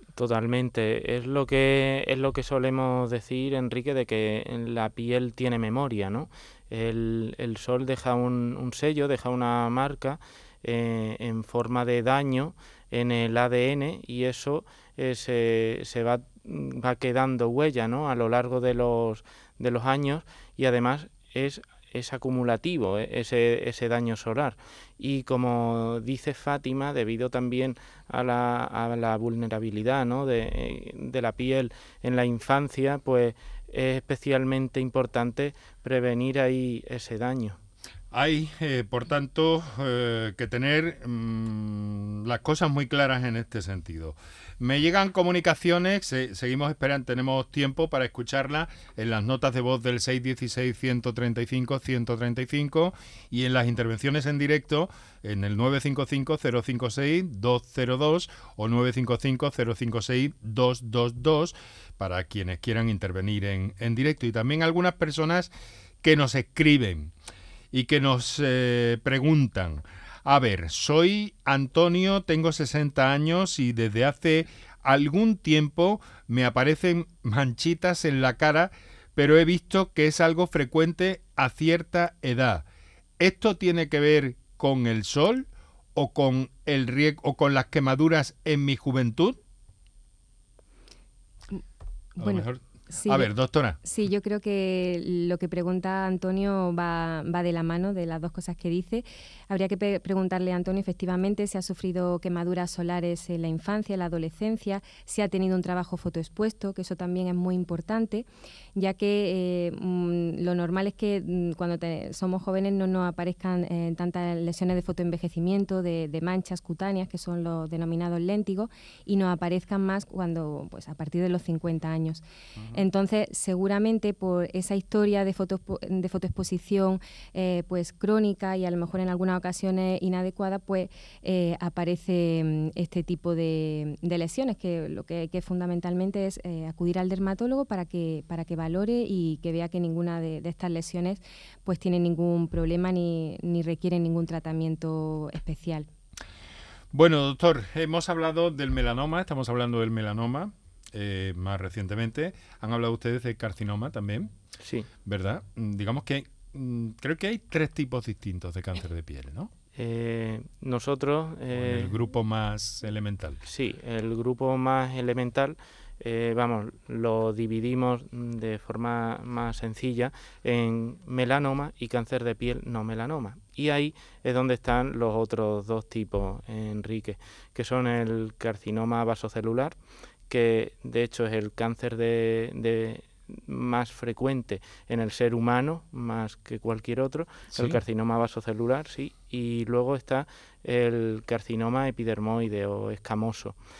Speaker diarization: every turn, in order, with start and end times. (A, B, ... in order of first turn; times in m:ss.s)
0:00.2-0:37.6 A
0:38.1-1:05.5 B
1:06.0-1:07.1 B
1:07.7-1:22.6 B
1:23.2-1:29.4 B
1:32.2-1:33.3 C
1:32.2-1:33.8 B
1:33.8-2:25.9 C
2:26.9-2:34.3 B
2:34.6-2:34.9 A
2:35.0-2:39.5 B
2:39.7-2:42.0 A
2:41.5-2:43.4 B
2:43.4-2:59.7 A
3:00.3-3:13.6 A
3:07.5-3:07.8 B